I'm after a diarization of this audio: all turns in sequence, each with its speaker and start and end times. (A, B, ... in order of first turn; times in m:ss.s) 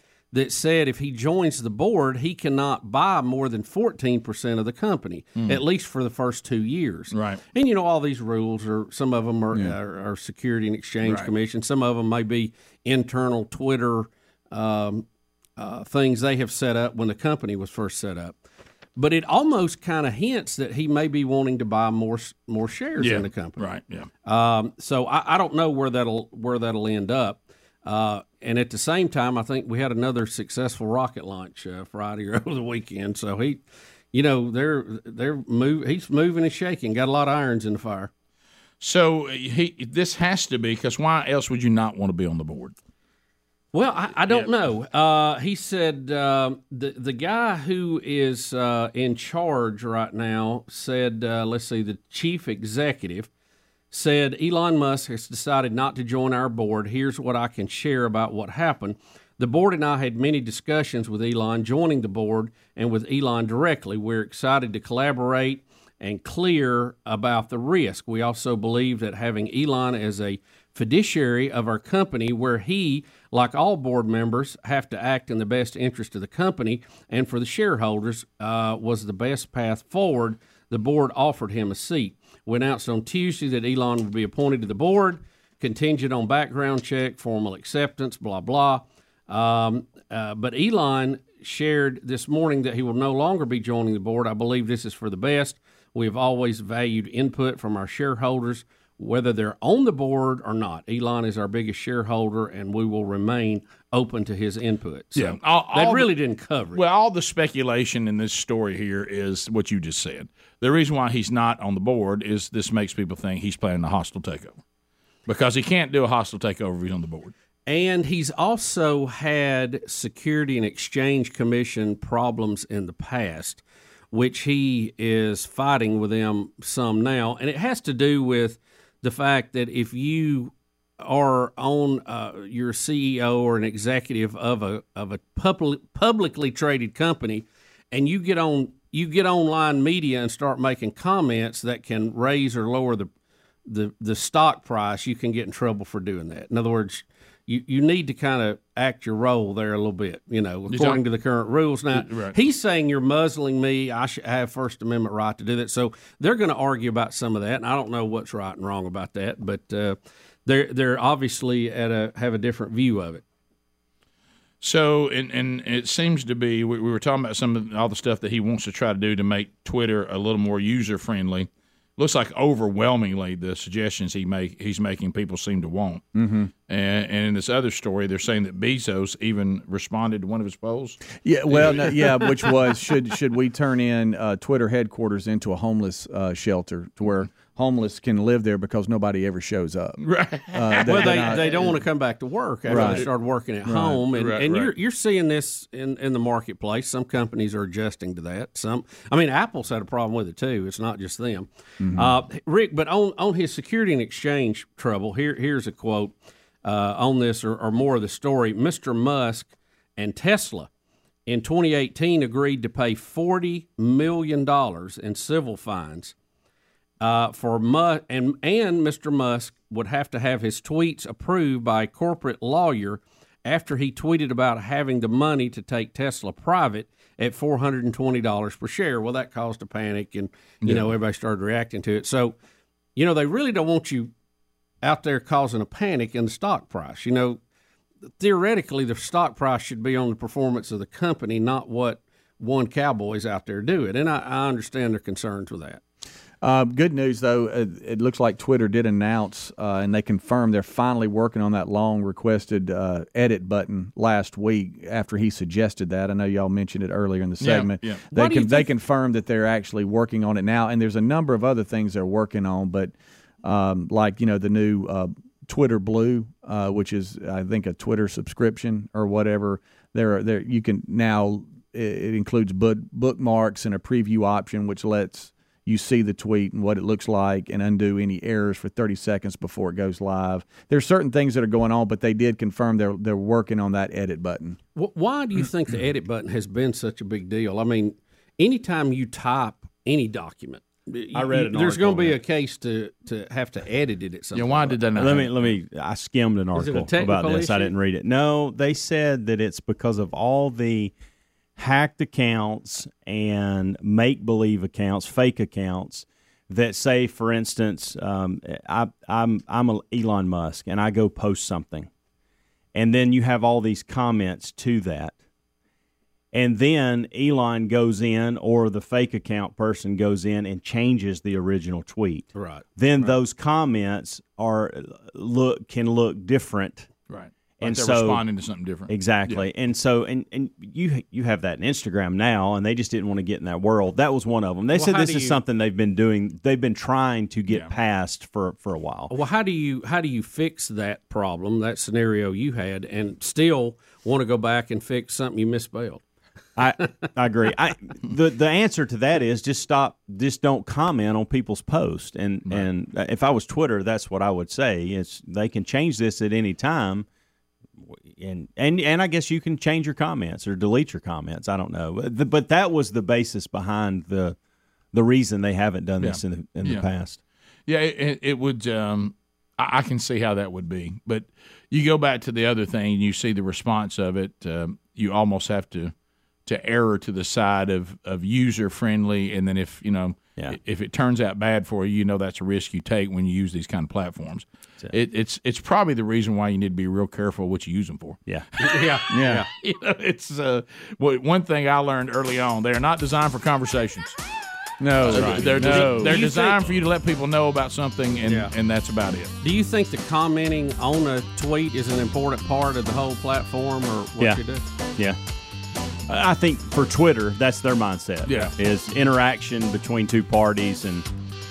0:00.3-0:15.1 A
0:07.1-0:07.4 B
0:11.0-0:11.3 B
0:15.6-0:18.4 A
0:19.0-0:23.7 A
0:23.0-0:24.1 B
0:24.2-0:38.1 A
0:38.8-0:42.8 B
0:43.7-0:53.3 A
0:53.9-1:46.8 A
1:45.2-1:46.1 B
1:46.7-1:54.6 B
1:55.3-1:57.3 B
1:57.7-2:23.1 A
2:23.7-2:43.2 A
2:30.7-2:31.0 B
2:31.9-2:32.4 B
2:44.6-2:56.0 B
2:56.2-2:56.5 C
2:56.7-3:01.9 B
3:01.2-3:11.8 C
3:10.0-3:11.6 B
3:10.9-3:30.7 A
3:12.7-3:13.1 C
3:12.7-3:13.1 B
3:13.7-3:14.0 C
3:14.1-3:14.7 B
3:21.8-3:22.1 C
3:31.3-3:36.1 A
3:37.0-3:52.4 A
3:50.6-3:51.0 B
3:53.0-3:54.1 A
3:54.8-3:57.4 A
3:58.2-4:05.8 A
4:06.4-4:44.6 C
4:17.4-4:18.0 B
4:18.1-4:18.7 A
4:44.8-4:54.8 A
4:51.1-4:52.2 D
4:54.3-4:55.6 B
4:54.9-5:00.9 D
4:56.5-4:57.7 A
5:01.6-5:11.9 D
5:12.7-5:15.2 D
5:16.3-5:26.9 D
5:22.4-5:23.2 A
5:27.1-5:29.4 B
5:27.6-5:28.2 D
5:28.9-5:39.1 D
5:34.7-5:35.4 A
5:37.5-5:37.7 B
5:39.1-5:46.0 A
5:46.6-5:57.1 D
5:57.9-6:04.4 D
6:04.9-6:07.2 D
6:06.0-6:06.9 B
6:07.7-6:15.9 B
6:16.5-6:34.2 B
6:28.6-6:29.5 A
6:29.1-6:29.4 C
6:34.8-6:36.1 C
6:35.0-6:39.3 B
6:35.1-6:36.6 A
6:38.2-6:38.5 A
6:39.4-6:44.6 A
6:46.1-6:51.1 D
6:48.2-6:48.5 B